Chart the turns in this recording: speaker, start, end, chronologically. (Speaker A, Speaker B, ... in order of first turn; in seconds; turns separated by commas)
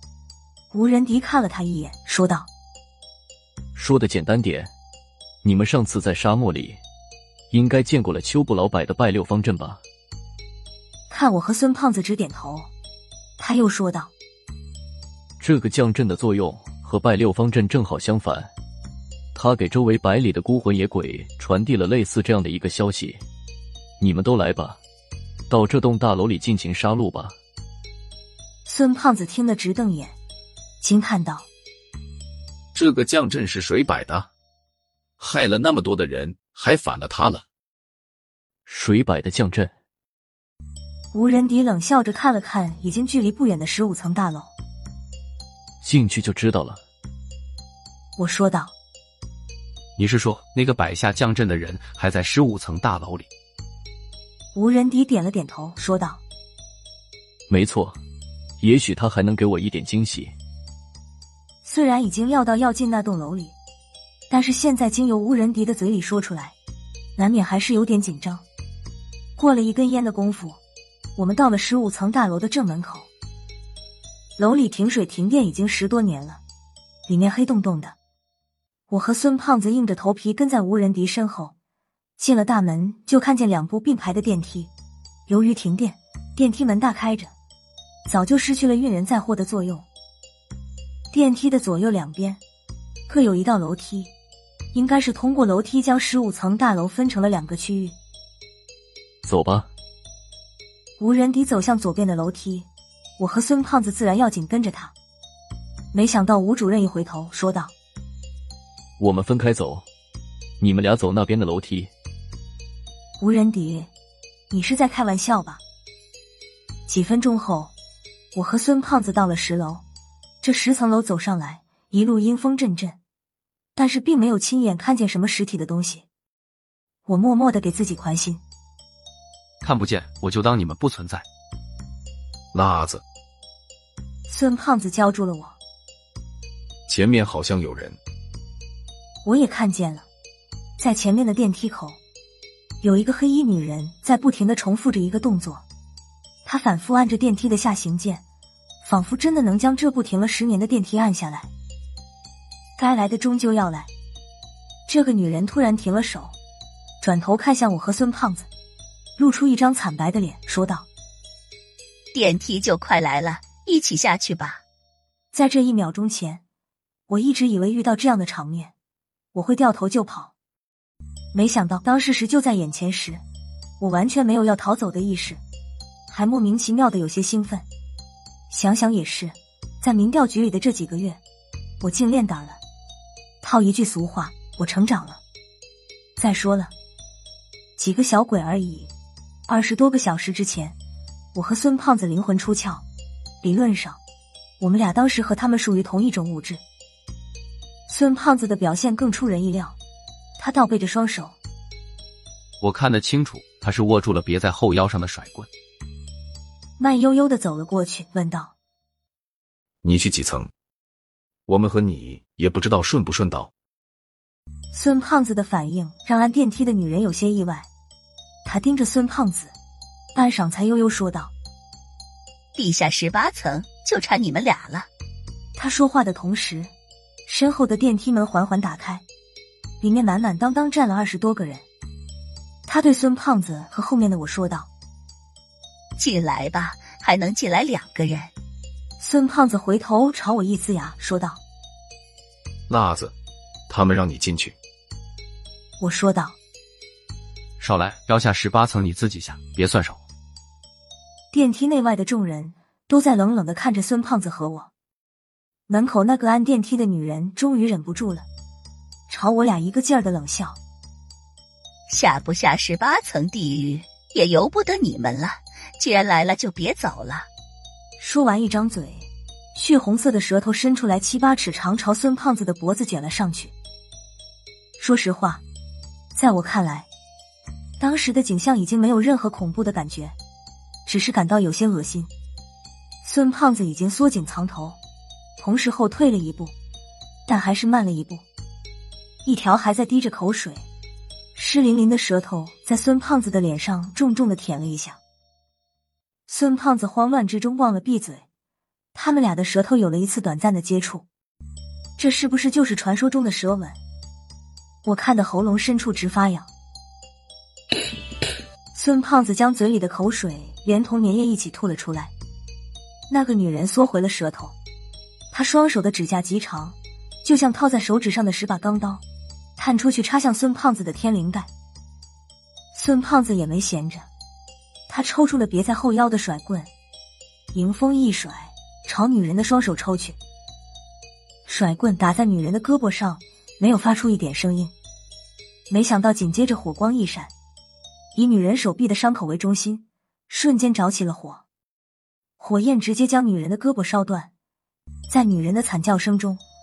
Speaker A: 0.7-2.5, Speaker B: 3.7-4.7, Speaker B: 5.4-6.8, Speaker B: 7.5-9.8, Speaker A: 11.1-12.7, Speaker A: 13.4-14.1, Speaker B: 15.4-18.5, Speaker B: 19.3-23.2, Speaker B: 24.0-24.8, Speaker B: 25.5-27.3, Speaker A: 28.6-30.1, Speaker A: 30.8-31.5, Speaker C: 32.7-34.3, Speaker C: 35.2-37.4, Speaker B: 38.6-39.7, Speaker A: 41.1-44.5, Speaker B: 45.8-46.8, Speaker A: 48.2-48.7, Speaker D: 50.0-53.3, Speaker A: 54.5-56.2, Speaker B: 57.5-58.0, Speaker B: 58.6-60.3, Speaker A: 61.6-63.5, Speaker A: 64.3-66.5, Speaker A: 67.2-68.4, Speaker A: 69.4-70.6, Speaker A: 71.2-73.1, Speaker A: 74.4-76.4, Speaker A: 77.1-77.9, Speaker A: 78.9-81.5, Speaker A: 82.2-84.7, Speaker A: 85.3-87.3, Speaker A: 88.1-89.8, Speaker A: 91.1-92.4, Speaker A: 93.1-94.1, Speaker A: 94.7-97.9, Speaker B: 99.2-99.7, Speaker A: 101.0-102.7, Speaker A: 103.2-104.9, Speaker A: 105.9-107.7, Speaker B: 109.0-109.8, Speaker B: 110.6-111.9, Speaker A: 113.2-113.9, Speaker A: 114.5-115.6, Speaker A: 116.9-117.7, Speaker A: 118.3-119.8, Speaker A: 120.4-123.0, Speaker A: 123.8-126.0, Speaker A: 127.0-128.4, Speaker D: 129.6-131.2, Speaker C: 132.5-133.0, Speaker A: 134.3-135.6, Speaker C: 136.9-138.0, Speaker A: 139.2-140.1, Speaker A: 140.8-142.0, Speaker A: 142.8-145.6, Speaker A: 146.4-148.2, Speaker A: 148.8-151.5, Speaker A: 152.8-153.9, Speaker A: 154.9-156.3, Speaker A: 157.0-158.5, Speaker A: 159.2-160.9, Speaker E: 162.1-164.6, Speaker A: 165.3-166.4, Speaker A: 167.1-168.7, Speaker A: 169.3-170.3, Speaker A: 171.3-173.2, Speaker A: 173.8-175.4, Speaker A: 176.1-177.7, Speaker A: 178.5-181.2, Speaker A: 181.8-182.6, Speaker A: 183.4-185.2, Speaker A: 186.2-186.7, Speaker A: 187.8-188.9, Speaker A: 189.5-190.8, Speaker A: 191.3-192.8, Speaker A: 193.4-194.0, Speaker A: 194.6-196.6, Speaker A: 197.9-199.8, Speaker A: 200.4-201.3, Speaker D: 202.6-205.5, Speaker A: 206.8-208.5, Speaker C: 209.8-210.5, Speaker C: 211.5-213.5, Speaker A: 214.7-217.7, Speaker A: 218.4-219.5, Speaker A: 220.1-221.3, Speaker E: 222.6-224.9, Speaker A: 225.6-226.7, Speaker A: 227.3-229.0, Speaker A: 229.8-231.6, Speaker A: 232.7-234.7, Speaker E: 236.0-238.3, Speaker A: 239.0-241.4, Speaker C: 242.7-243.1, Speaker C: 243.7-244.6, Speaker A: 245.8-246.3, Speaker D: 247.6-250.0, Speaker A: 251.3-254.7, Speaker A: 255.7-258.2, Speaker A: 259.1-260.6, Speaker E: 261.9-267.3, Speaker A: 268.0-273.5, Speaker A: 274.8-275.4, Speaker A: 276.1-276.9, Speaker A: 277.8-280.1, Speaker A: 280.9-282.1, Speaker A: 283.0-284.8, Speaker A: 285.4-286.5, Speaker A: 287.3-288.2, Speaker A: 289.2-290.6, Speaker A: 291.3-295.0, Speaker A: 296.3-298.2, Speaker A: 298.9-301.1, Speaker A: 302.0-303.8, Speaker A: 304.8-306.5, Speaker A: 308.7-312.1, Speaker A: 313.1-314.5, Speaker A: 315.3-319.0, Speaker A: 319.6-321.5, Speaker A: 322.7-324.1, Speaker A: 324.9-326.7, Speaker A: 327.5-330.2, Speaker A: 331.4-334.7, Speaker A: 335.7-337.3, Speaker A: 338.1-341.4, Speaker A: 342.4-344.3, Speaker A: 345.1-346.4